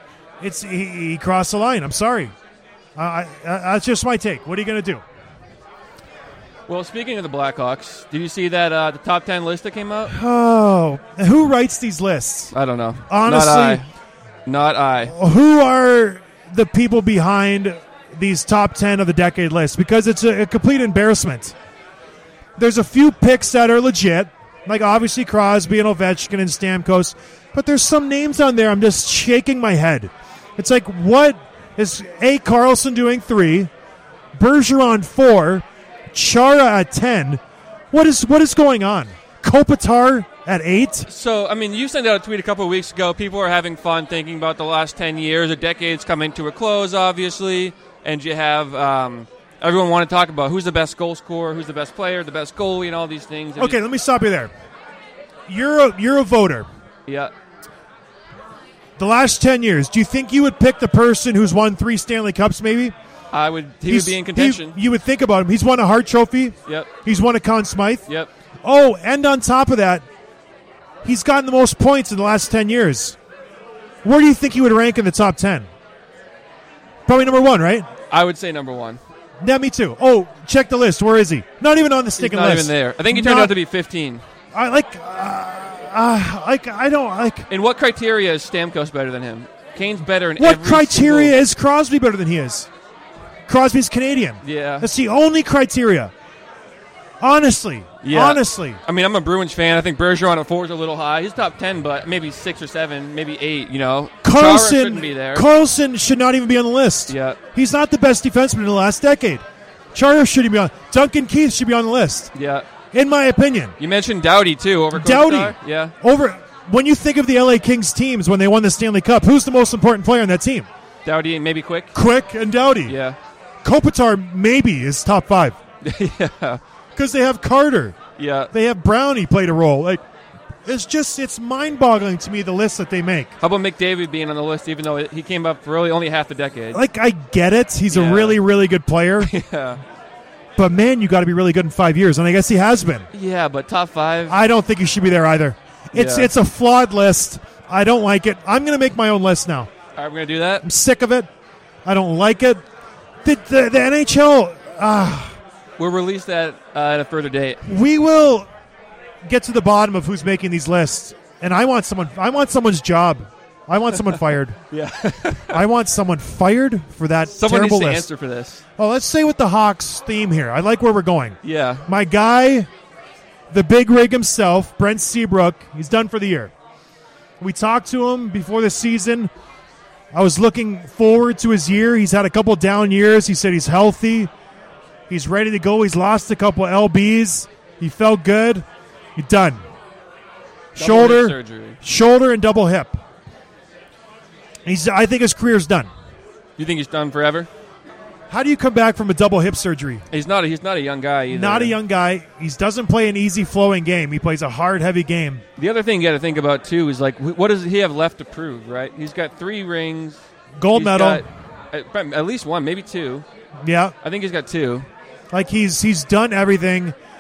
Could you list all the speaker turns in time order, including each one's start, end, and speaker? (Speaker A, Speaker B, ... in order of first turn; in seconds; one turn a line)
Speaker A: 0.4-2.3
Speaker A: 3.0-5.0
Speaker B: 6.7-10.1
Speaker A: 10.1-12.5
Speaker B: 12.5-13.8
Speaker A: 13.1-13.8
Speaker B: 14.5-15.1
Speaker A: 15.0-21.6
Speaker A: 22.6-33.7
Speaker A: 34.4-37.4
Speaker A: 37.9-41.1
Speaker B: 41.1-53.8
Speaker A: 53.6-54.5
Speaker A: 55.5-56.7
Speaker B: 57.1-57.3
Speaker A: 59.0-63.0
Speaker B: 63.3-64.8
Speaker A: 63.9-68.1
Speaker A: 68.6-70.0
Speaker A: 71.0-73.2
Speaker A: 74.0-75.7
Speaker A: 77.1-77.9
Speaker B: 78.1-79.0
Speaker A: 79.4-83.5
Speaker B: 82.2-84.2
Speaker A: 84.5-87.5
Speaker B: 87.5-91.4
Speaker A: 90.4-92.7
Speaker A: 93.5-96.1
Speaker B: 94.4-94.9
Speaker A: 97.2-98.8
Speaker B: 98.0-105.5
Speaker A: 104.2-112.3
Speaker B: 107.1-107.4
Speaker B: 112.3-112.7
Speaker A: 112.9-113.8
Speaker B: 113.8-115.9
Speaker A: 114.9-120.7
Speaker B: 121.0-121.9
Speaker A: 121.9-123.0
Speaker B: 122.9-123.2
Speaker A: 123.6-125.6
Speaker B: 125.8-126.6
Speaker A: 127.0-128.0
Speaker B: 128.2-128.5
Speaker A: 128.5-130.0
Speaker A: 130.7-133.3
Speaker B: 133.4-136.8
Speaker A: 136.7-139.3
Speaker B: 137.9-138.4
Speaker B: 139.2-139.8
Speaker A: 140.6-143.1
Speaker B: 143.1-144.4
Speaker A: 144.3-149.7
Speaker B: 145.9-146.3
Speaker B: 150.0-150.6
Speaker A: 150.6-151.3
Speaker A: 151.8-152.6
Speaker A: 153.2-155.4
Speaker B: 155.8-157.6
Speaker A: 157.7-158.5
Speaker A: 159.2-164.6
Speaker B: 164.7-165.6
Speaker A: 165.4-168.1
Speaker B: 167.3-168.6
Speaker A: 168.8-172.7
Speaker B: 171.4-171.9
Speaker A: 173.5-176.5
Speaker A: 177.4-179.3
Speaker A: 180.1-184.3
Speaker A: 185.1-189.6
Speaker A: 190.8-193.0
Speaker B: 190.8-191.8
Speaker A: 194.7-195.9
Speaker B: 196.6-197.5
Speaker A: 198.3-200.1
Speaker B: 200.1-201.8
Speaker A: 201.3-205.4
Speaker B: 205.6-210.2
Speaker A: 210.6-211.2
Speaker B: 210.7-213.2
Speaker A: 213.6-213.9
Speaker B: 214.0-214.9
Speaker A: 215.3-217.0